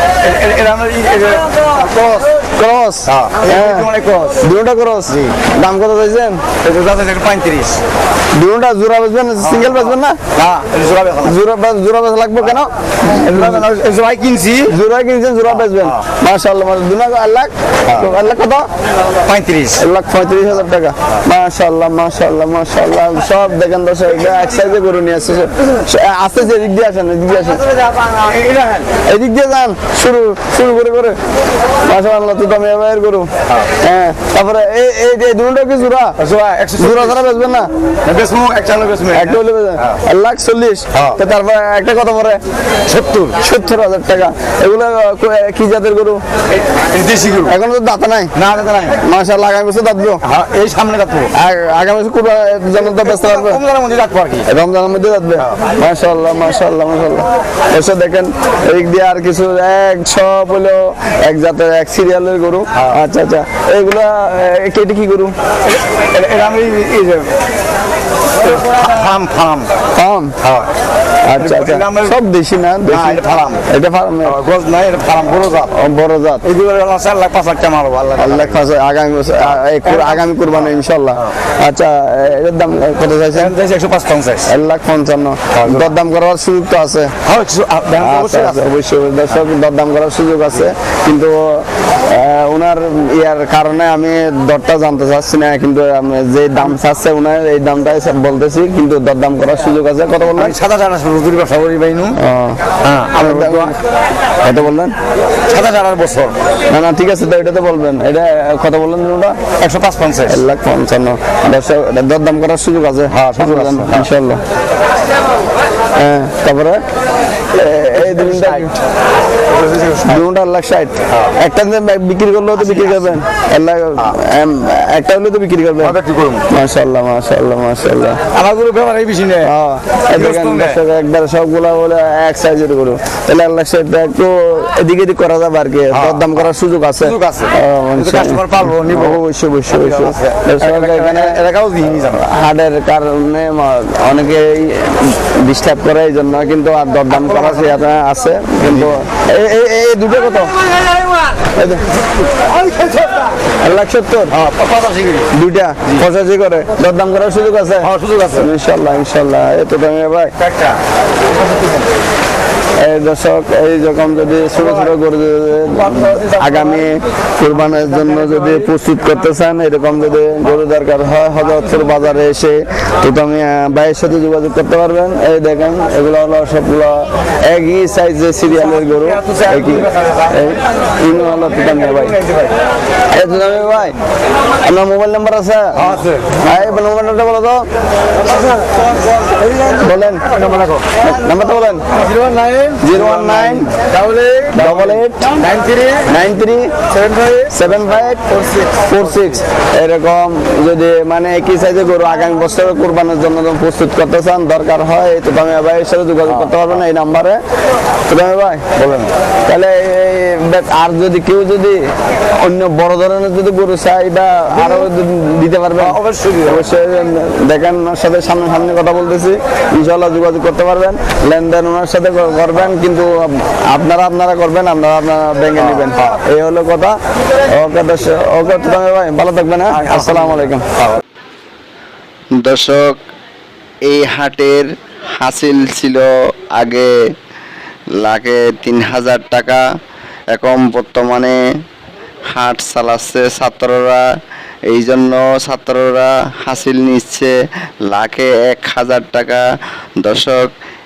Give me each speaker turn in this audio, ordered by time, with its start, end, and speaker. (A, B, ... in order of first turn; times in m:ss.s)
0:00.2-0:02.4 A
0:02.6-0:03.9 B
0:03.1-0:04.4 A
0:04.4-0:06.4 B
0:06.6-0:07.8 A
0:08.4-0:10.2 B
0:09.5-0:11.4 A
0:11.2-0:13.6 B
0:13.1-0:14.7 A
0:14.7-0:18.7 B
0:15.5-0:16.0 A
0:19.2-0:19.8 A
0:19.8-0:27.6 B
0:28.2-0:28.9 A
0:29.1-0:31.2 B
0:31.9-0:33.3 B
0:33.8-0:36.2 B
0:36.2-0:37.2 A
0:36.8-0:37.7 B
0:38.0-0:40.0 A
0:39.1-0:42.4 B
0:40.9-0:41.2 A
0:42.9-0:43.4 A
0:43.4-0:46.2 B
0:46.9-0:47.5 A
0:47.4-0:48.3 B
0:48.4-0:49.0 A
0:49.0-0:50.2 B
0:50.2-0:51.3 A
0:51.3-0:53.6 B
0:53.0-0:54.5 A
0:54.5-1:05.4 B
1:02.7-1:03.0 A
1:06.1-1:07.3 A
1:08.4-1:09.7 A
1:10.0-1:10.3 B
1:10.4-1:10.7 A
1:11.3-1:14.4 B
1:11.3-1:12.2 A
1:12.9-1:13.7 A
1:14.2-1:15.7 A
1:15.7-1:16.4 B
1:16.4-1:18.6 A
1:18.2-1:23.5 B
1:19.4-1:20.6 A
1:23.4-1:24.5 A
1:24.5-1:27.1 B
1:25.5-1:25.9 A
1:27.2-1:28.6 A
1:28.0-1:40.6 B
1:40.4-1:42.2 A
1:42.2-1:42.6 B
1:42.8-1:43.8 A
1:43.2-1:43.8 B
1:44.4-1:45.0 B
1:45.5-1:46.4 A
1:46.7-1:49.4 B
1:49.6-1:50.4 A
1:50.3-1:54.4 B
1:53.1-1:54.1 A
1:56.0-1:56.8 B
1:57.5-1:58.7 B
1:58.0-1:58.7 A
1:59.6-2:00.2 A
2:00.0-2:06.0 B
2:02.6-2:03.2 A
2:05.8-2:06.5 A
2:06.5-2:08.2 B
2:08.3-2:09.5 A
2:09.4-2:21.4 B
2:10.1-2:10.8 A
2:15.9-2:16.4 A
2:17.0-2:19.2 A
2:19.7-2:22.2 A
2:22.2-2:30.5 B
2:27.3-2:27.7 A
2:28.7-2:29.0 A
2:31.6-2:31.8 B
2:32.7-2:33.1 A
2:33.6-2:34.3 B
2:34.3-2:35.3 A
2:35.3-2:40.3 B
2:37.8-2:38.5 A
2:40.4-2:40.8 A
2:42.8-3:02.2 B
2:59.1-3:00.3 A
3:01.8-3:02.5 A
3:03.1-3:04.0 B
3:04.6-3:07.6 B
3:05.8-3:06.4 A
3:09.8-3:10.2 B
3:10.3-3:10.8 A
3:11.0-3:11.8 B
3:12.0-3:16.1 A
3:12.8-3:13.7 B
3:14.5-3:15.3 B
3:16.1-3:16.7 B
3:17.0-3:17.5 A
3:17.4-3:18.2 B
3:18.9-3:27.4 B
3:26.3-3:26.6 A
3:28.1-3:28.6 B
3:28.8-3:29.1 A
3:29.5-3:31.8 B
3:32.4-3:47.0 B
3:35.8-3:36.7 A
3:45.7-3:46.2 A
3:47.5-3:50.6 B
3:49.8-3:50.4 A
3:52.4-3:53.0 C
3:53.9-3:56.9 C
3:58.0-3:59.6 C
4:00.3-4:01.4 C
4:02.3-4:04.1 C
4:04.7-4:07.4 C
4:07.9-4:09.4 C
4:10.0-4:10.5 C